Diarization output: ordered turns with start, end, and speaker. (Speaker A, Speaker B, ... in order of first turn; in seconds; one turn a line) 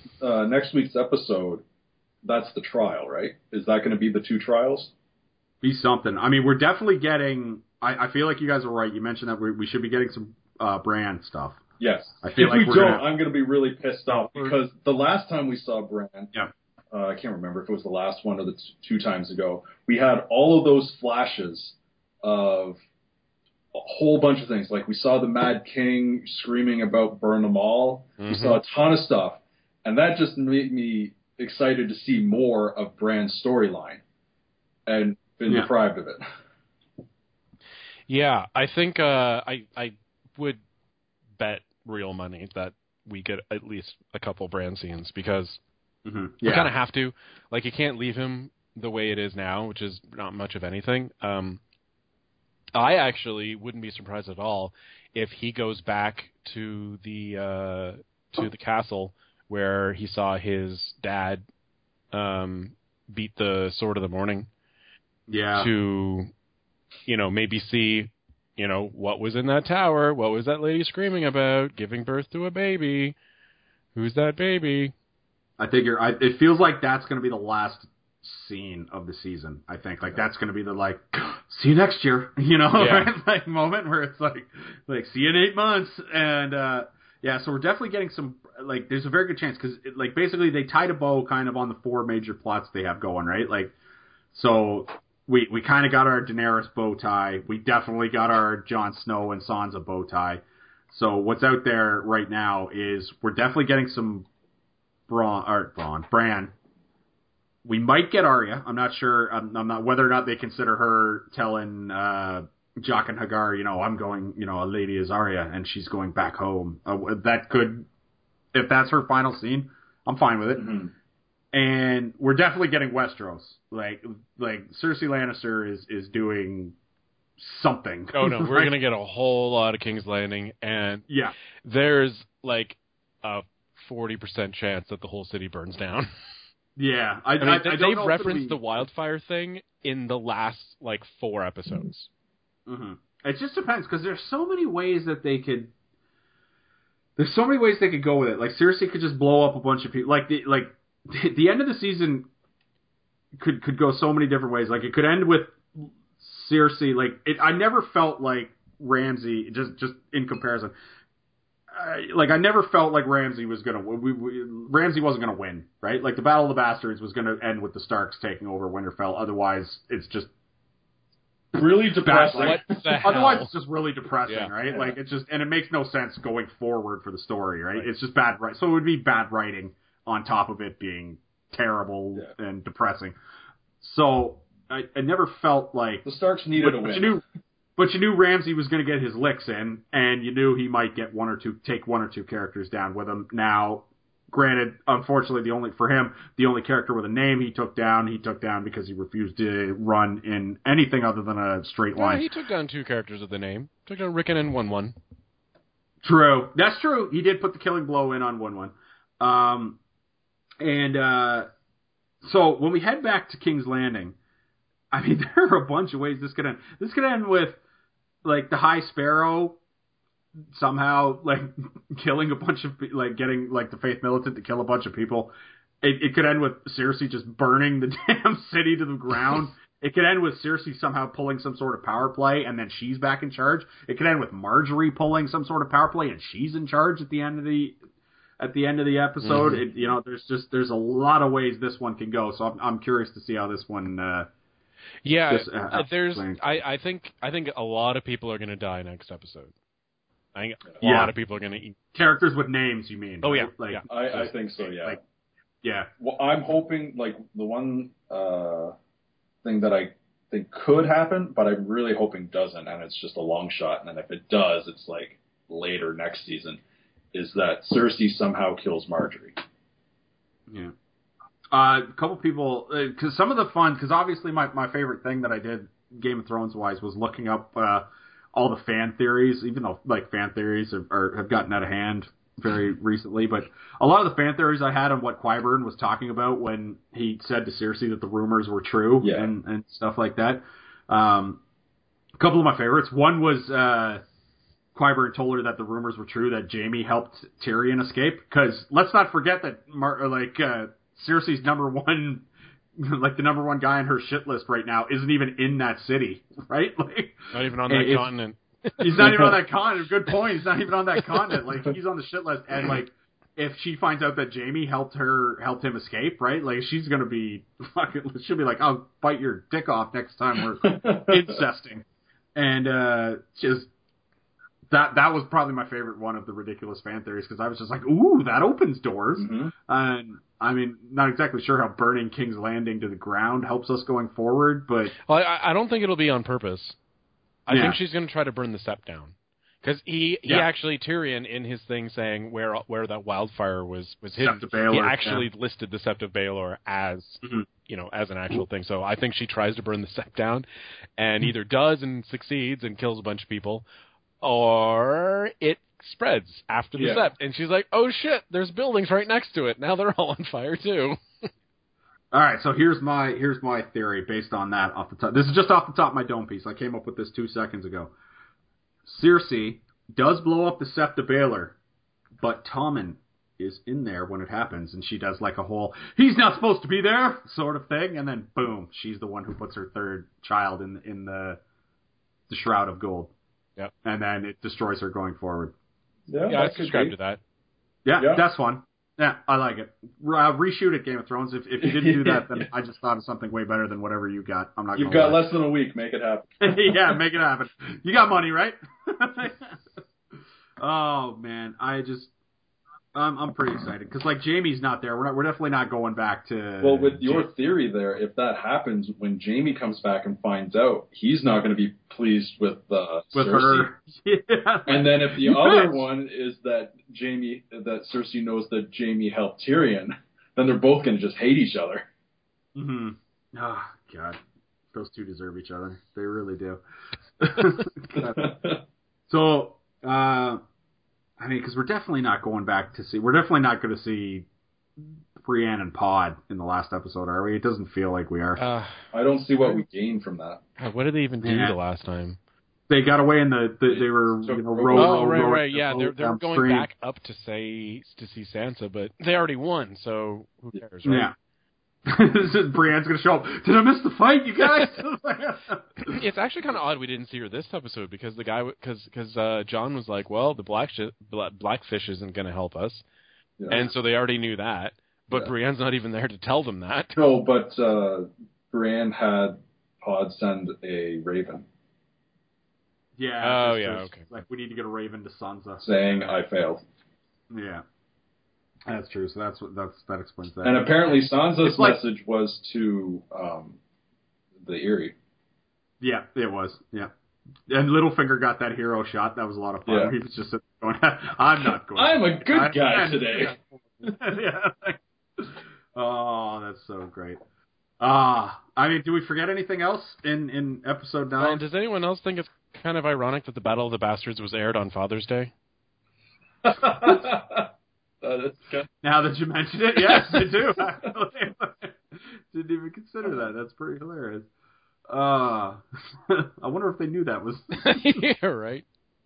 Speaker A: 0.2-1.6
Speaker A: 2.2-4.9
Speaker B: 5.6-11.6
Speaker A: 11.8-16.3
Speaker B: 12.2-13.1
Speaker B: 14.1-14.6
Speaker A: 16.9-22.8
Speaker A: 23.7-34.0
Speaker C: 28.2-28.6
Speaker A: 34.9-36.2
Speaker C: 38.1-40.6
Speaker C: 41.4-45.6
Speaker B: 46.0-46.7
Speaker C: 46.5-51.6
Speaker C: 52.8-61.4
Speaker C: 62.1-64.5
Speaker B: 65.3-65.7
Speaker C: 65.6-66.3
Speaker C: 67.1-73.2
Speaker C: 74.0-74.9
Speaker B: 75.6-93.8
Speaker C: 82.8-83.1
Speaker B: 94.3-104.3
Speaker B: 105.1-106.5
Speaker B: 107.7-117.9
Speaker B: 118.5-120.8
Speaker A: 120.6-120.9
Speaker B: 121.5-126.8
Speaker B: 127.4-128.7
Speaker C: 128.1-131.1
Speaker B: 131.1-131.4
Speaker C: 131.6-136.1
Speaker B: 136.8-138.6
Speaker C: 137.4-142.1
Speaker B: 142.7-145.7
Speaker B: 147.2-152.3
Speaker B: 153.4-160.7
Speaker B: 161.7-170.3
Speaker A: 171.5-173.1
Speaker B: 172.0-183.2
Speaker C: 172.1-173.5
Speaker A: 174.7-174.9
Speaker B: 183.8-186.1
Speaker A: 186.0-187.2
Speaker B: 186.6-187.2
Speaker B: 187.8-202.3
Speaker C: 202.0-204.9
Speaker B: 206.0-209.8
Speaker B: 210.6-211.5
Speaker B: 212.2-214.2
Speaker B: 214.9-217.6
Speaker B: 218.2-219.6
Speaker B: 220.5-237.8
Speaker B: 238.4-244.3
Speaker C: 239.2-239.6
Speaker C: 245.0-249.5
Speaker B: 245.3-246.4
Speaker C: 250.3-251.8
Speaker B: 250.8-251.1
Speaker B: 251.9-255.0
Speaker C: 253.2-253.8
Speaker A: 253.9-255.0
Speaker B: 255.6-255.9
Speaker A: 256.0-258.7
Speaker A: 259.4-266.6
Speaker A: 267.1-269.4
Speaker B: 271.5-291.4
Speaker A: 289.0-289.3
Speaker B: 292.2-294.0
Speaker B: 294.8-302.3
Speaker B: 302.8-308.1
Speaker C: 307.3-309.4
Speaker B: 308.8-323.7
Speaker A: 320.6-321.4
Speaker B: 324.7-334.9
Speaker A: 329.2-329.5
Speaker C: 335.0-336.8
Speaker C: 337.5-350.5
Speaker B: 337.5-337.8
Speaker B: 344.2-345.3
Speaker C: 351.0-353.6
Speaker C: 354.2-361.0
Speaker A: 356.8-357.1
Speaker B: 362.1-367.9
Speaker B: 368.9-371.6
Speaker B: 372.2-381.4
Speaker B: 382.3-383.1
Speaker B: 383.8-385.5
Speaker A: 386.1-386.9
Speaker C: 386.3-387.2
Speaker B: 387.9-395.2
Speaker A: 391.6-392.5
Speaker A: 394.8-397.0
Speaker B: 396.4-399.6
Speaker B: 400.6-402.1
Speaker B: 402.9-407.3
Speaker A: 406.6-413.7
Speaker B: 413.1-415.8
Speaker A: 414.7-421.9
Speaker B: 422.6-424.2
Speaker B: 424.7-426.6
Speaker B: 427.2-428.3
Speaker A: 428.0-428.6
Speaker B: 429.1-430.4
Speaker B: 431.2-434.3
Speaker B: 435.2-438.4
Speaker C: 438.4-438.9
Speaker A: 438.9-440.4
Speaker C: 440.6-442.2
Speaker B: 441.2-441.6
Speaker B: 442.7-446.7
Speaker A: 443.7-445.3
Speaker C: 444.8-451.1
Speaker B: 450.8-451.1
Speaker B: 451.9-456.0
Speaker C: 455.9-462.8
Speaker A: 463.4-463.7
Speaker C: 463.5-467.0
Speaker A: 467.0-471.5
Speaker B: 473.0-476.2
Speaker C: 473.2-474.0
Speaker A: 475.6-476.6
Speaker B: 477.3-477.6
Speaker B: 478.7-481.8
Speaker A: 480.4-483.6
Speaker A: 484.4-484.9
Speaker B: 485.8-486.9
Speaker B: 487.5-497.2
Speaker A: 489.7-489.9
Speaker A: 491.8-493.4
Speaker B: 497.8-501.4
Speaker C: 501.2-505.3
Speaker A: 506.4-507.5
Speaker A: 508.0-508.7
Speaker B: 508.8-514.3
Speaker B: 514.9-518.1
Speaker C: 517.5-518.6